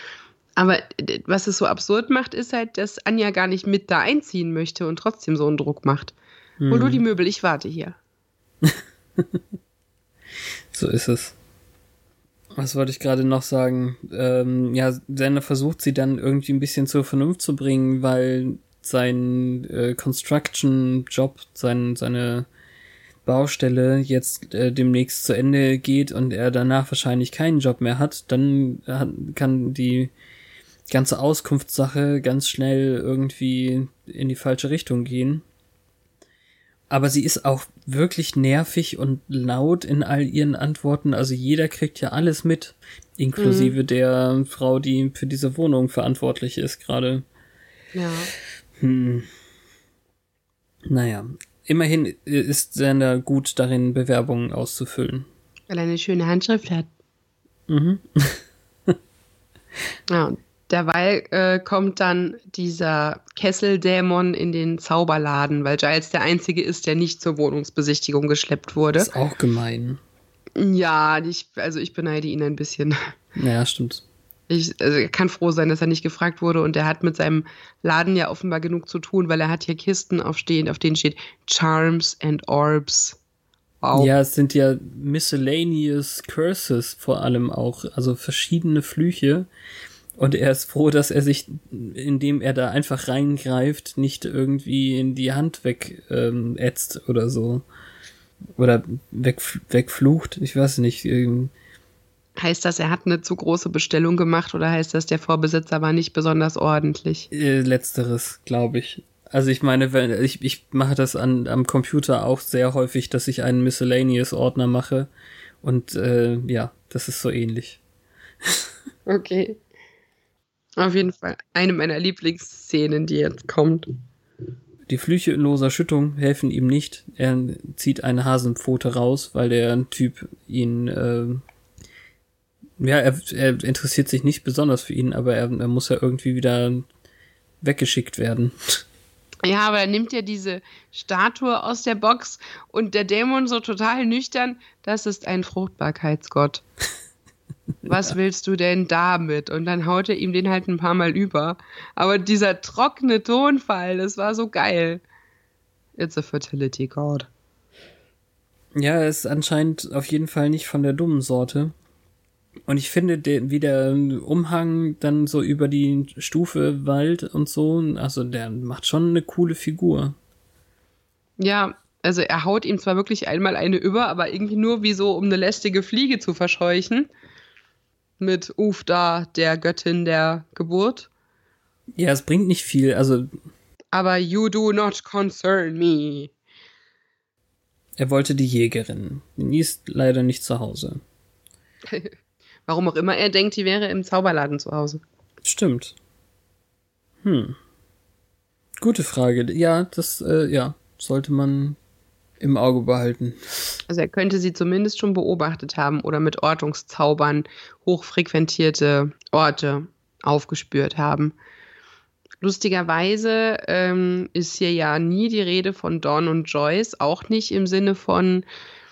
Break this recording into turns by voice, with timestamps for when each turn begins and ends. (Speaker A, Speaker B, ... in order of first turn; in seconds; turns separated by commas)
Speaker A: 0.6-6.1, Speaker B: 6.6-7.0, Speaker A: 6.7-8.0, Speaker B: 8.6-9.4, Speaker B: 10.7-11.3, Speaker B: 12.5-22.5, Speaker B: 23.2-30.1, Speaker B: 30.9-35.4, Speaker B: 36.9-47.2, Speaker A: 43.4-43.7, Speaker A: 47.9-48.3, Speaker B: 48.8-49.3, Speaker B: 50.9-55.3, Speaker A: 55.7-56.9, Speaker B: 57.7-59.0, Speaker A: 60.1-69.1, Speaker B: 69.0-70.0, Speaker A: 70.6-73.0, Speaker B: 73.3-74.0, Speaker A: 74.5-83.2, Speaker A: 83.8-84.1, Speaker B: 83.9-89.5, Speaker B: 90.2-97.6, Speaker B: 98.6-101.5, Speaker A: 102.4-107.3, Speaker B: 107.3-115.1, Speaker B: 115.6-117.8, Speaker A: 119.1-119.6, Speaker A: 120.8-123.9, Speaker B: 124.9-131.4, Speaker B: 132.8-136.8, Speaker B: 137.6-138.8, Speaker A: 139.4-146.6, Speaker A: 147.8-155.0, Speaker A: 156.0-157.3, Speaker B: 158.7-161.7, Speaker B: 162.7-170.2, Speaker A: 171.4-177.1, Speaker A: 178.2-181.1, Speaker B: 181.9-183.3, Speaker A: 183.9-186.3, Speaker B: 188.0-191.0, Speaker A: 191.9-192.1, Speaker A: 192.7-195.0, Speaker B: 195.4-195.9, Speaker B: 197.2-197.6, Speaker B: 198.8-201.8, Speaker B: 202.4-203.8, Speaker A: 203.9-211.3, Speaker A: 212.4-218.4